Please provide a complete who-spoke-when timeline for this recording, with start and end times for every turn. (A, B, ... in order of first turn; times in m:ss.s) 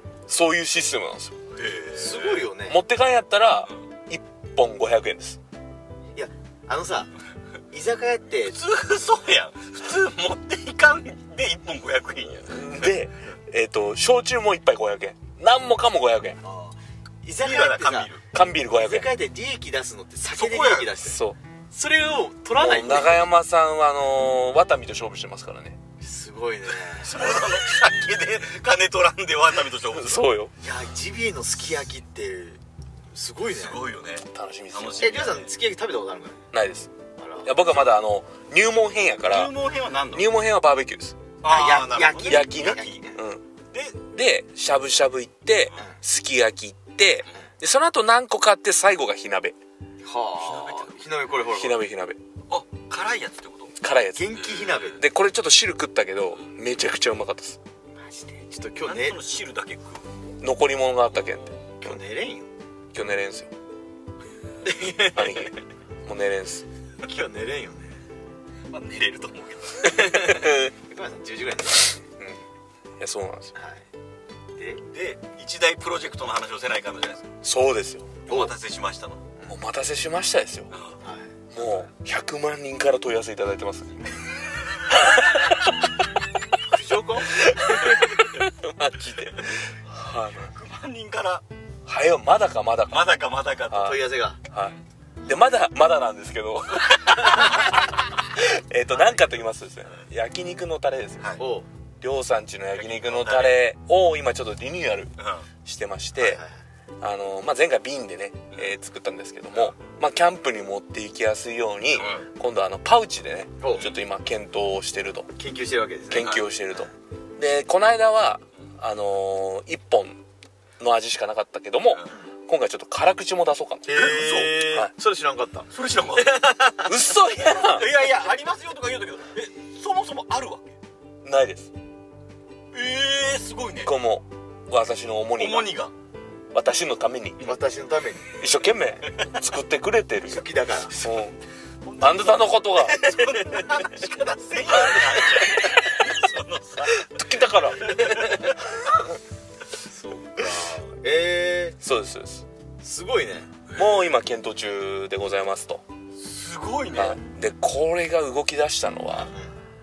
0:00.3-0:01.4 A
0:01.6-0:02.5 B
0:01.9-0:02.8 C
0:02.6-0:05.4 A
0:06.2-0:07.1 C
0:07.7-0:08.6 C
0:08.5-0:12.9 B
0:12.5-0:16.4 A
0:16.4-0:18.1 C
0:17.4-0:18.2 B
0:18.3-0:19.2 A
0:18.7-0:21.2 C
0:20.3-0:21.0 B
0:21.0-0:21.4 A
0:21.7-0:23.3 C
0:22.5-0:25.8 A
0:26.0-0:27.4 C
0:27.0-0:30.3 B
0:29.9-0:30.5 A
0:30.6-0:32.6 C
0:33.1-0:33.9 C
0:33.4-0:35.5 B
0:34.2-0:35.2 A
0:35.0-0:36.4 C
0:36.5-0:36.9 A
0:37.2-0:37.6 C
0:37.4-0:39.5 A
0:37.7-0:38.0 B
0:39.2-0:40.3 B
0:40.1-0:41.2 A
0:41.4-0:43.0 B
0:41.4-0:43.2 C
0:42.3-0:43.4 A
0:43.7-0:44.0 B
0:44.1-0:49.6 A
0:50.0-0:51.8 C
0:50.4-0:51.0 B
0:51.5-0:52.2 A
0:52.5-0:53.8 B
0:53.8-0:57.6 A
0:54.2-0:55.0 C
0:54.4-0:55.0 B
0:58.0-0:59.2 C
0:58.8-1:00.1 B
1:00.4-1:02.0 A
1:01.8-1:02.5 C
1:02.9-1:03.5 A
1:04.6-1:05.5 C
1:04.9-1:06.6 A
1:07.0-1:07.9 C
1:08.7-1:10.3 B
1:09.8-1:12.0 C
1:10.1-1:10.7 A
1:13.0-1:13.5 A
1:13.6-1:13.8 C
1:14.6-1:14.8 C
1:14.9-1:17.3 B
1:17.4-1:18.3 A
1:18.3-1:19.3 B
1:19.5-1:20.7 A
1:20.7-1:21.0 B
1:21.0-1:21.8 C
1:21.5-1:24.0 A
1:26.7-1:27.5 C
1:27.5-1:30.5 A
1:30.4-1:31.4 B
1:31.9-1:37.8 A
1:32.9-1:33.9 B
1:33.7-1:34.4 C
1:37.2-1:37.8 C
1:38.3-1:41.3 A
1:38.9-1:39.2 C
1:41.4-1:41.7 C
1:42.0-1:45.1 A
1:42.8-1:43.6 B
1:45.2-1:45.5 B
1:45.6-1:46.4 A
1:46.2-1:46.5 C
1:47.0-1:55.3 A
1:52.0-1:52.3 B
1:53.6-1:53.9 C
1:55.4-1:56.4 C
1:56.1-2:00.2 A
1:56.2-1:56.5 B
2:00.8-2:03.9 A
2:03.8-2:06.9 C
2:03.9-2:04.7 B
2:05.7-2:06.6 B
2:06.7-2:07.9 A
2:07.4-2:10.7 B
2:11.2-2:11.7 A
2:12.7-2:14.0 B
2:13.8-2:15.7 A
2:15.4-2:15.9 B
2:16.5-2:17.5 A
2:17.4-2:18.3 C
2:18.3-2:21.4 A
2:20.3-2:21.0 C
2:21.8-2:27.1 B
2:22.0-2:23.2 A
2:22.9-2:23.7 C
2:26.9-2:28.2 A
2:27.8-2:28.4 B
2:29.8-2:31.8 C
2:31.8-2:32.5 A
2:32.8-2:33.5 C
2:33.7-2:34.1 B
2:33.7-2:35.8 A
2:36.2-2:37.2 B
2:36.9-2:39.3 A
2:39.1-2:39.5 C